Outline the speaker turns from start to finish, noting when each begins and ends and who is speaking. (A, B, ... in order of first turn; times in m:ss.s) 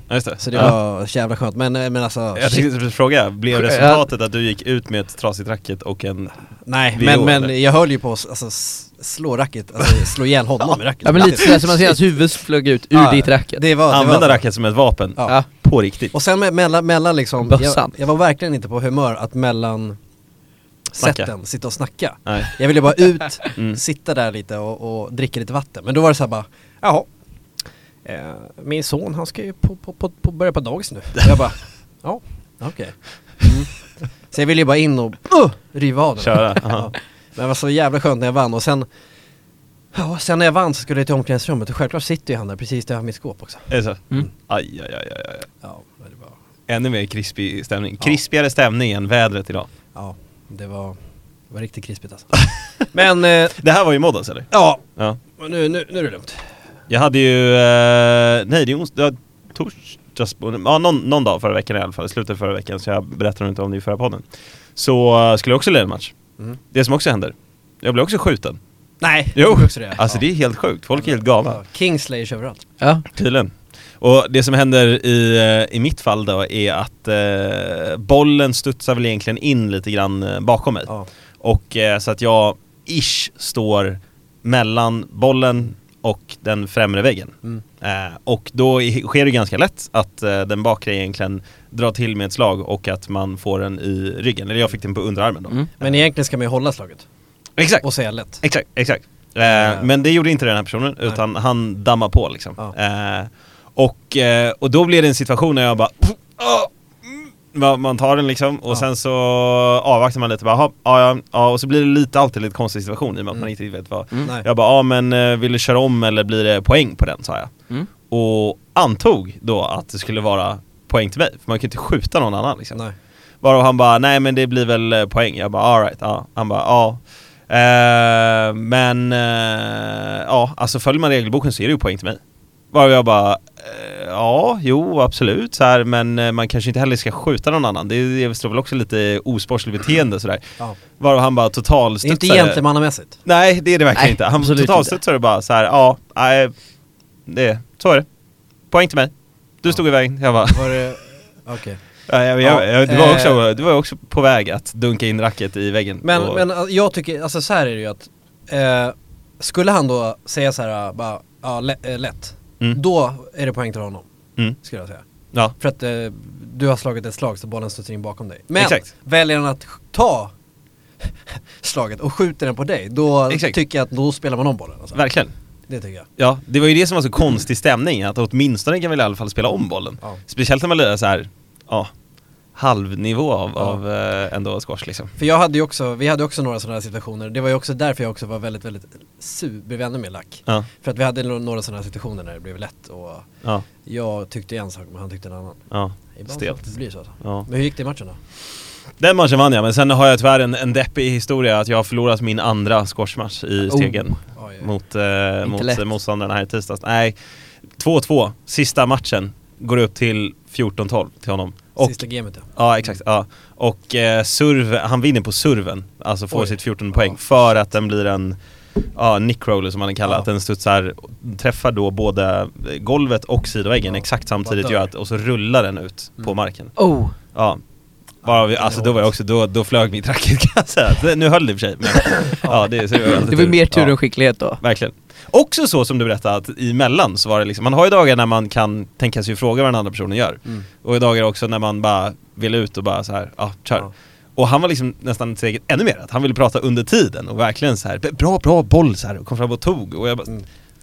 0:00.1-0:00.8 A
0:00.4-0:02.7 B
0:02.4-0:06.4 A
0:03.5-0:04.0 C
0:06.6-0:11.9 B
0:06.9-0:07.5 A
0:11.0-0:13.6 C
0:11.4-0:11.7 A
0:12.9-0:13.3 A
0:13.6-0:14.4 B
0:13.9-0:16.1 A
0:15.2-0:15.4 B
0:16.1-0:20.0 B
0:17.5-0:17.9 C
0:20.9-0:27.1 B
0:21.0-0:21.3 A
0:22.3-0:22.5 A
0:28.0-0:38.9 B
0:36.2-0:36.9 A
0:39.9-0:44.3 B
0:43.7-0:45.5 A
0:45.6-0:46.4 B
0:46.7-0:49.7 A
0:49.9-0:51.0 B
0:51.5-0:53.6 B
0:53.6-0:55.2 A
0:54.5-0:56.5 B
0:56.9-1:04.2 A
1:04.8-1:06.1 A
1:06.7-1:08.6 A
1:09.0-1:10.2 B
1:09.4-1:11.6 A
1:11.4-1:12.6 B
1:12.8-1:13.0 C
1:13.1-1:20.9 A
1:21.4-1:36.0 A
1:35.8-1:37.0 B
1:37.6-1:37.8 A
1:37.8-1:38.4 B
1:38.4-1:57.5 A
1:39.4-1:39.9 B
1:58.1-2:02.8 A
2:03.4-2:12.2 A
2:12.7-2:22.6 A
2:22.0-2:23.2 B
2:23.2-2:26.5 A
2:24.0-2:25.0 C
2:27.3-2:28.1 A
2:28.7-2:30.8 A
2:30.4-2:31.8 B
2:32.1-2:36.4 A
2:32.4-2:33.4 B
2:36.0-2:44.0 B
2:44.6-2:45.0 B
2:45.6-2:50.3 B
2:48.6-2:48.8 A
2:51.0-2:55.0 B
2:53.3-2:53.6 A
2:54.9-2:55.3 A
2:55.7-2:56.1 B
2:56.2-3:01.9 A
3:02.6-3:05.1 A
3:05.2-3:13.3 B
3:13.8-3:15.6 B
3:15.7-3:16.6 A
3:16.1-3:18.2 B
3:17.2-3:17.5 A
3:19.0-3:27.2 A
3:23.7-3:24.1 C
3:24.3-3:24.7 B
3:25.4-3:25.8 C
3:27.7-3:32.0 A
3:31.8-3:32.5 B
3:32.5-3:38.4 A
3:36.3-3:37.2 B
3:38.9-3:46.8 A
3:44.0-3:44.8 B
3:46.8-3:47.2 C
3:47.3-3:47.6 A
3:48.2-3:49.1 B
3:48.2-3:54.0 A
3:52.4-3:52.7 B
3:53.3-3:54.6 C
3:54.6-4:10.3 A